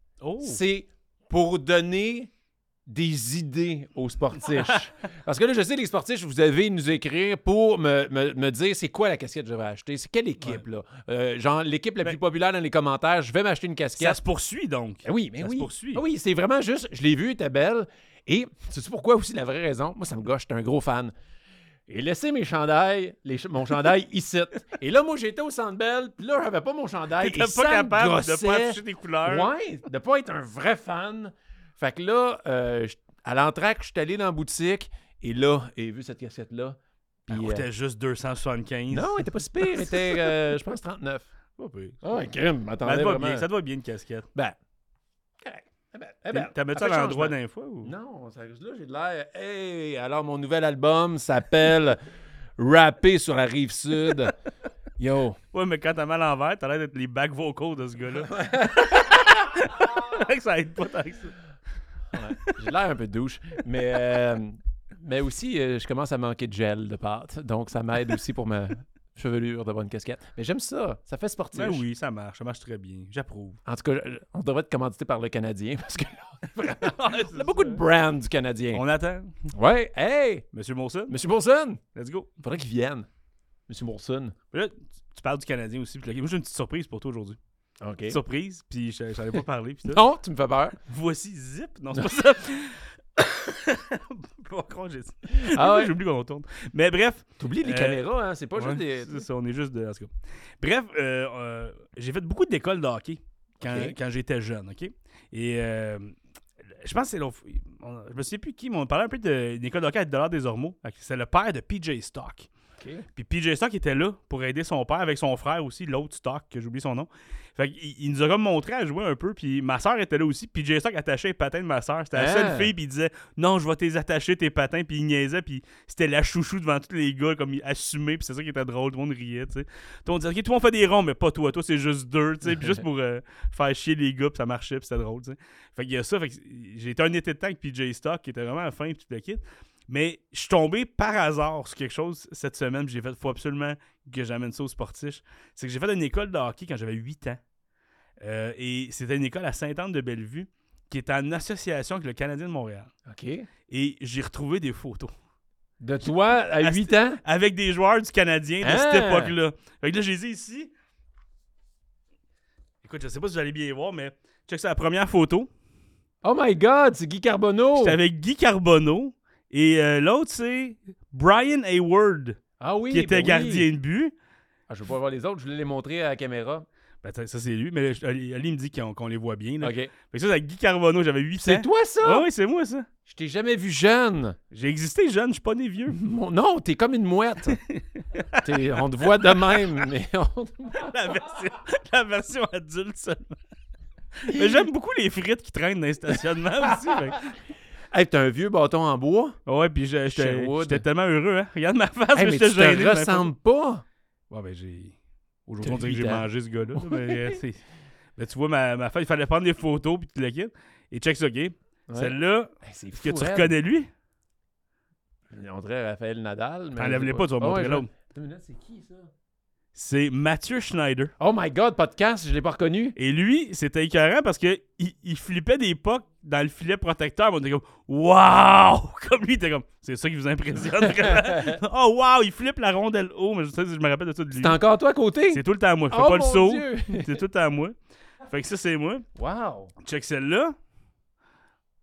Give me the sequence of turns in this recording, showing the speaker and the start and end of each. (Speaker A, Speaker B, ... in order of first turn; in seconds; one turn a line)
Speaker A: 0.2-0.6
Speaker B: 0.4-2.3
Speaker B: 2.9-14.2
Speaker A: 14.0-16.0
Speaker B: 15.1-21.1
Speaker B: 21.9-37.7
Speaker A: 27.2-29.5
Speaker A: 37.3-40.3
Speaker B: 38.9-41.3
Speaker A: 41.6-42.0
Speaker B: 42.0-43.5
Speaker A: 42.8-44.3
Speaker B: 45.4-52.0
Speaker A: 46.3-47.9
Speaker B: 52.6-54.4
Speaker B: 55.0-55.4
Speaker A: 55.5-61.4
Speaker B: 58.3-59.5
Speaker B: 62.1-71.8
Speaker A: 71.5-73.6
Speaker B: 73.7-78.8
Speaker A: 76.8-77.8
Speaker A: 78.7-79.3
Speaker B: 79.5-80.5
Speaker A: 80.5-81.2
Speaker B: 81.1-81.8
Speaker A: 82.0-82.3
Speaker B: 82.4-83.1
Speaker B: 83.7-84.3
Speaker A: 84.5-87.4
Speaker B: 87.8-88.2
Speaker A: 88.1-90.0
Speaker B: 89.9-90.8
Speaker A: 90.9-98.0
Speaker B: 95.3-95.9
Speaker B: 97.4-99.2
Speaker A: 98.5-100.1
Speaker A: 100.6-106.1
Speaker B: 103.6-104.0
Speaker A: 106.8-112.5
Speaker B: 112.8-113.1
Speaker A: 113.2-147.4
Speaker B: 122.1-122.7
Speaker A: 148.2-152.9
Speaker B: 153.1-153.5
Speaker A: 153.7-155.1
Speaker B: 155.8-157.2
Speaker A: 156.6-160.7
Speaker B: 158.6-159.3
Speaker A: 162.8-165.5
Speaker B: 166.2-168.0
Speaker A: 167.8-174.1
Speaker B: 172.6-173.7
Speaker B: 174.7-176.7
Speaker A: 177.0-182.9
Speaker B: 179.6-179.9
Speaker B: 181.4-182.3
Speaker B: 183.1-184.4
Speaker A: 184.5-186.0
Speaker B: 185.9-187.6
Speaker A: 187.7-189.8
Speaker B: 188.4-191.0
Speaker A: 190.8-193.4
Speaker A: 194.2-197.3
Speaker B: 194.3-194.7
Speaker B: 196.9-197.2
Speaker B: 197.9-199.4
Speaker A: 199.5-203.3
Speaker B: 200.1-200.8
Speaker B: 202.2-203.8
Speaker A: 204.3-204.9
Speaker A: 205.5-207.6
Speaker B: 205.6-206.2
Speaker B: 206.8-207.4
Speaker A: 208.2-213.9
Speaker B: 211.9-213.5
Speaker B: 215.3-219.1
Speaker A: 216.8-217.9
Speaker A: 219.8-221.1
Speaker B: 221.2-222.9
Speaker A: 223.0-234.6
Speaker B: 230.8-231.6
Speaker B: 234.4-237.2
Speaker A: 235.3-237.8
Speaker A: 238.3-239.1
Speaker B: 239.2-239.7
Speaker A: 239.8-240.6